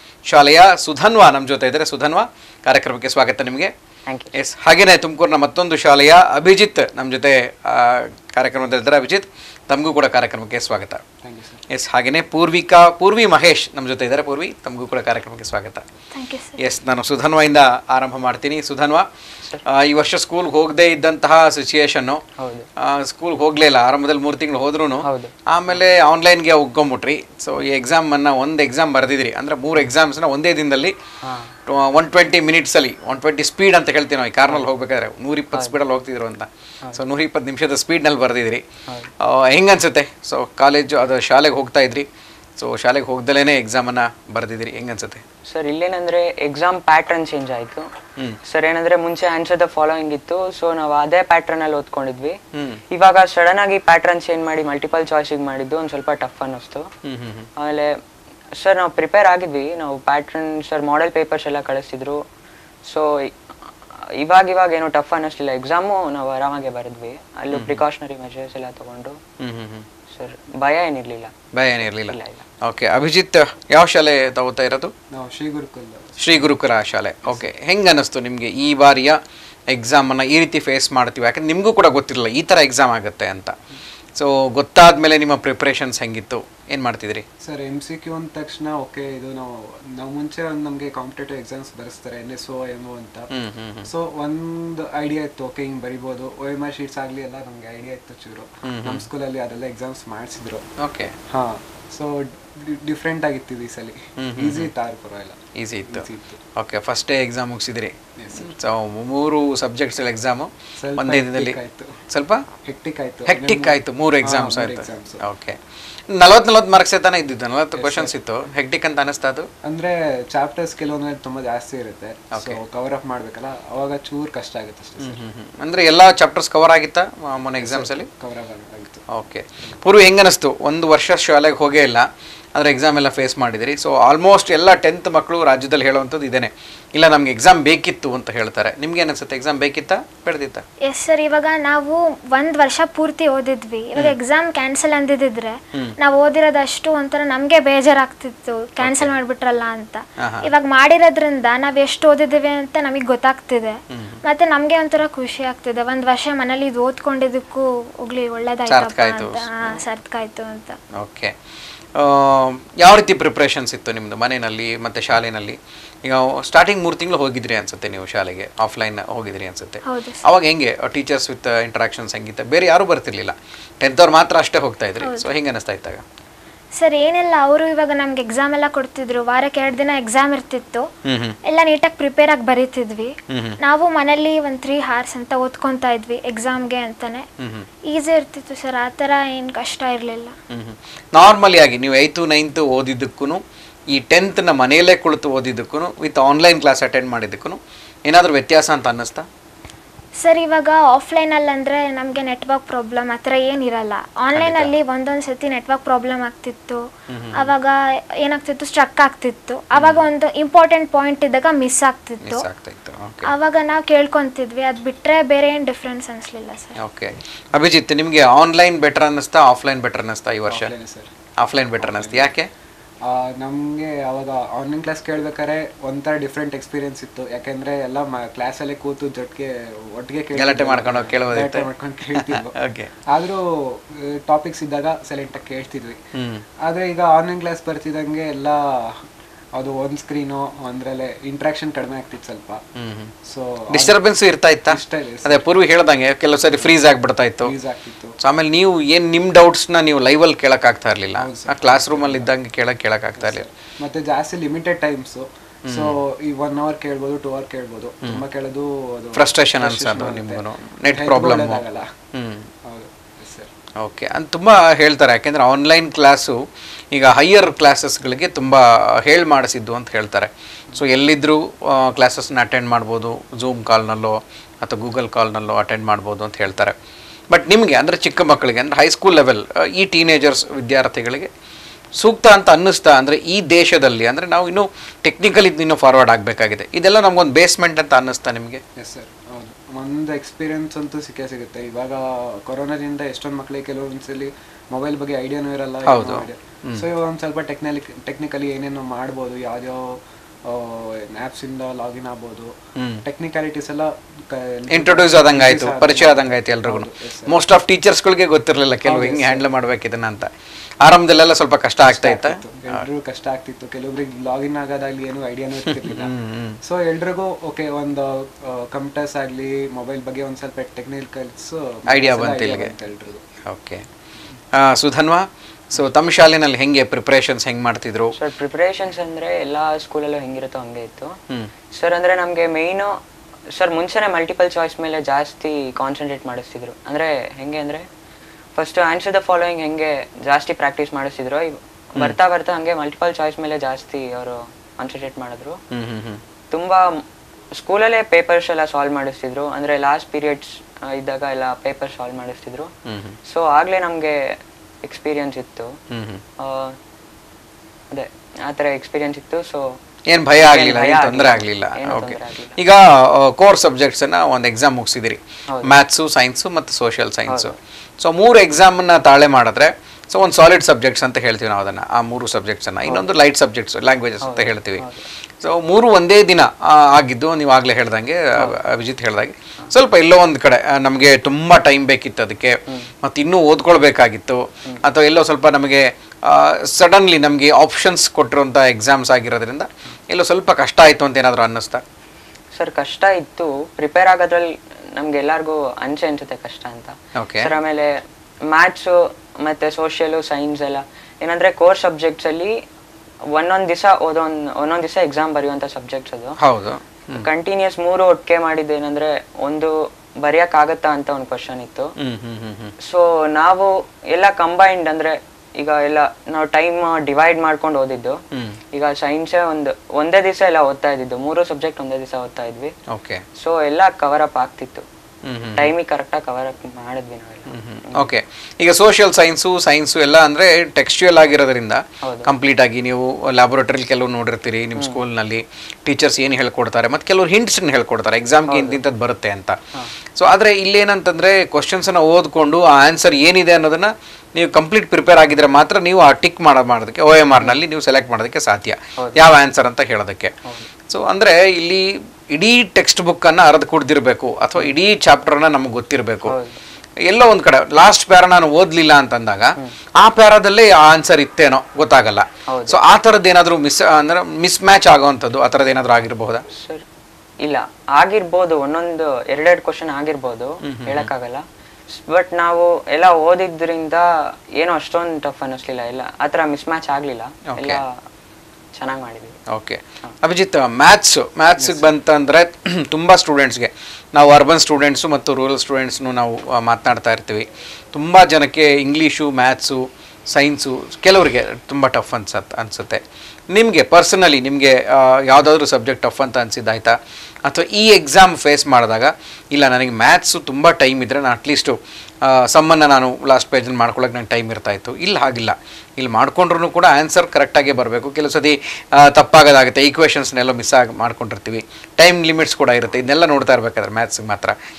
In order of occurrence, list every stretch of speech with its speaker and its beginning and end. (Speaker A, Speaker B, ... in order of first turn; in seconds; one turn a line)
Speaker A: 0.3-3.7
Speaker B: 4.1-4.3
Speaker A: 4.3-11.0
Speaker C: 11.2-11.6
Speaker A: 11.7-15.8
Speaker D: 16.1-16.6
Speaker A: 16.6-19.1
Speaker A: 19.6-22.2
Speaker B: 22.4-22.7
Speaker A: 22.8-31.0
Speaker B: 25.0-25.4
Speaker B: 31.2-31.6
Speaker A: 31.7-38.6
Speaker A: 39.2-42.1
Speaker A: 42.6-45.2
Speaker B: 45.5-47.9
Speaker B: 48.5-52.4
Speaker A: 52.5-52.8
Speaker B: 52.9-56.9
Speaker A: 57.0-57.5
Speaker B: 57.6-58.0
Speaker B: 58.6-62.2
Speaker B: 62.9-63.3
Speaker B: 64.2-69.2
Speaker A: 67.5-67.8
Speaker A: 69.4-69.9
Speaker B: 70.1-71.3
Speaker A: 71.5-74.9
Speaker B: 72.0-72.5
Speaker C: 75.1-76.2
Speaker A: 76.2-79.2
Speaker A: 79.7-83.5
Speaker A: 84.2-87.2
Speaker C: 87.4-93.3
Speaker A: 93.3-93.9
Speaker C: 93.9-100.6
Speaker A: 98.7-99.1
Speaker A: 100.8-101.1
Speaker C: 101.3-106.4
Speaker A: 104.2-104.7
Speaker A: 105.6-111.6
Speaker C: 108.2-108.5
Speaker C: 110.8-112.0
Speaker A: 112.1-112.5
Speaker C: 112.7-115.2
Speaker A: 113.3-119.5
Speaker C: 117.8-118.1
Speaker C: 119.6-125.2
Speaker A: 122.3-122.6
Speaker A: 125.0-128.1
Speaker C: 127.6-129.1
Speaker A: 129.1-140.6
Speaker D: 140.8-160.8
Speaker A: 148.8-149.1
Speaker A: 150.2-150.5
Speaker A: 153.9-154.2
Speaker A: 158.7-159.8
Speaker A: 160.9-161.3
Speaker A: 162.0-176.0
Speaker D: 169.8-170.2
Speaker D: 175.0-175.3
Speaker D: 176.8-180.8
Speaker A: 181.1-181.4
Speaker D: 181.4-187.3
Speaker A: 183.3-183.6
Speaker A: 187.4-187.7
Speaker D: 187.9-190.4
Speaker A: 190.5-199.3
Speaker D: 200.2-206.8
Speaker A: 204.3-204.7
Speaker A: 207.1-207.5
Speaker D: 207.3-212.4
Speaker A: 209.8-210.1
Speaker A: 212.2-213.3
Speaker D: 213.2-216.8
Speaker A: 216.8-220.7
Speaker C: 220.5-221.1
Speaker A: 221.4-222.5
Speaker C: 221.8-222.3
Speaker C: 223.0-232.5
Speaker A: 230.3-232.9
Speaker C: 233.1-236.0
Speaker A: 236.2-236.4
Speaker C: 236.6-242.6
Speaker A: 242.8-243.1
Speaker C: 243.2-244.0
Speaker A: 243.7-247.6
Speaker C: 244.7-245.4
Speaker C: 247.4-248.2
Speaker A: 248.2-253.5
Speaker C: 251.2-252.3
Speaker C: 253.2-261.9
Speaker A: 255.7-256.0
Speaker A: 259.1-262.5
Speaker C: 262.6-263.5
Speaker A: 263.8-276.8
Speaker A: 277.3-281.3
Speaker A: 282.0-288.6
Speaker C: 288.8-307.4
Speaker A: 295.9-296.9
Speaker A: 302.8-303.1
Speaker A: 304.7-310.3
Speaker C: 308.9-309.4
Speaker A: 310.8-312.9
Speaker C: 311.8-316.1
Speaker A: 315.6-316.6
Speaker C: 316.6-323.2
Speaker A: 321.9-322.7
Speaker A: 323.4-323.9
Speaker A: 324.5-328.1
Speaker B: 328.2-331.1
Speaker B: 331.8-333.0
Speaker B: 333.5-337.9
Speaker B: 338.6-345.6
Speaker A: 345.7-346.2
Speaker B: 346.5-347.0
Speaker B: 347.6-352.7
Speaker A: 352.9-353.2
Speaker B: 353.3-355.8
Speaker A: 355.9-356.2
Speaker B: 356.4-356.8
Speaker B: 357.9-359.8
Speaker A: 360.1-374.9
Speaker B: 360.4-362.6
Speaker B: 365.5-365.8
Speaker B: 367.3-367.6
Speaker B: 374.2-375.1
Speaker A: 375.4-391.8
Speaker B: 392.6-402.6
Speaker A: 397.1-397.6
Speaker B: 403.3-406.4
Speaker A: 406.4-407.3
Speaker B: 407.1-411.9
Speaker A: 412.0-412.7
Speaker B: 412.8-418.2
Speaker A: 418.3-418.6
Speaker B: 418.7-422.7
Speaker A: 422.9-423.2
Speaker B: 423.4-424.9
Speaker A: 425.2-425.7
Speaker B: 425.6-428.1
Speaker A: 427.5-439.6
Speaker B: 432.0-432.3
Speaker B: 438.5-438.8
Speaker A: 440.1-450.3
Speaker B: 449.0-449.3
Speaker B: 450.4-450.7
Speaker A: 450.9-456.4
Speaker B: 456.3-456.6
Speaker A: 457.1-466.4
Speaker B: 462.5-462.8
Speaker B: 466.5-466.8
Speaker B: 467.4-477.9
Speaker A: 470.6-471.1
Speaker A: 477.5-477.8
Speaker B: 478.8-479.4
Speaker A: 479.5-514.5
Speaker C: 481.6-481.9